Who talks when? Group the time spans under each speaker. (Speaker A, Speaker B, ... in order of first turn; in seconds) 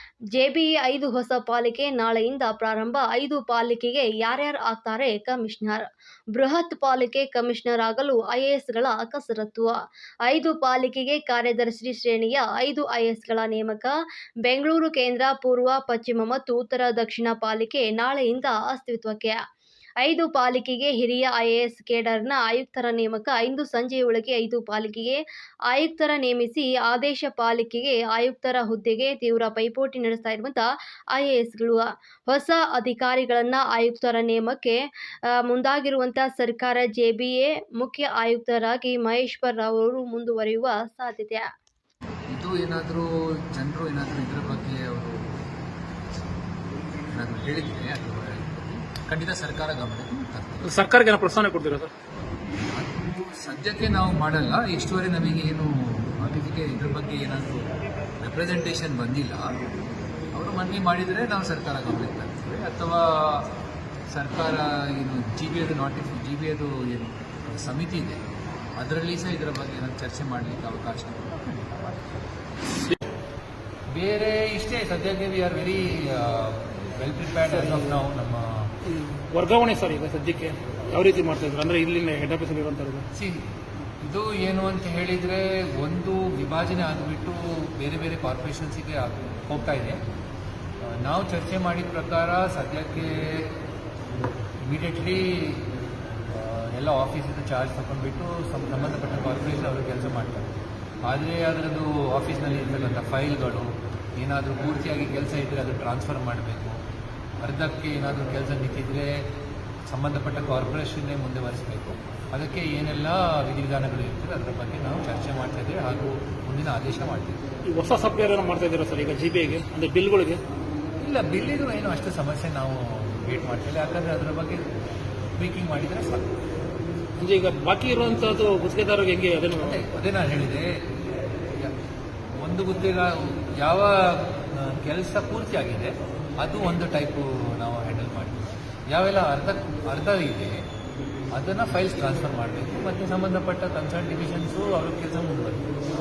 Speaker A: 0.3-9.7, 10.3-13.9, 14.4-19.4, 20.0-34.8, 35.3-41.5
Speaker B: 42.3-45.4, 47.1-50.8, 52.7-59.5, 60.3-63.5, 64.1-68.2, 68.8-72.1, 73.9-78.7, 83.1-83.4, 84.0-90.0, 90.8-93.5, 94.7-100.5, 101.0-106.8, 107.4-109.2, 109.9-117.4, 121.0-124.7, 125.3-126.3, 129.6-130.7, 131.4-131.7, 132.4-140.6, 141.3-145.7
Speaker C: 50.6-51.9, 78.9-83.0, 117.7-120.4, 127.2-129.8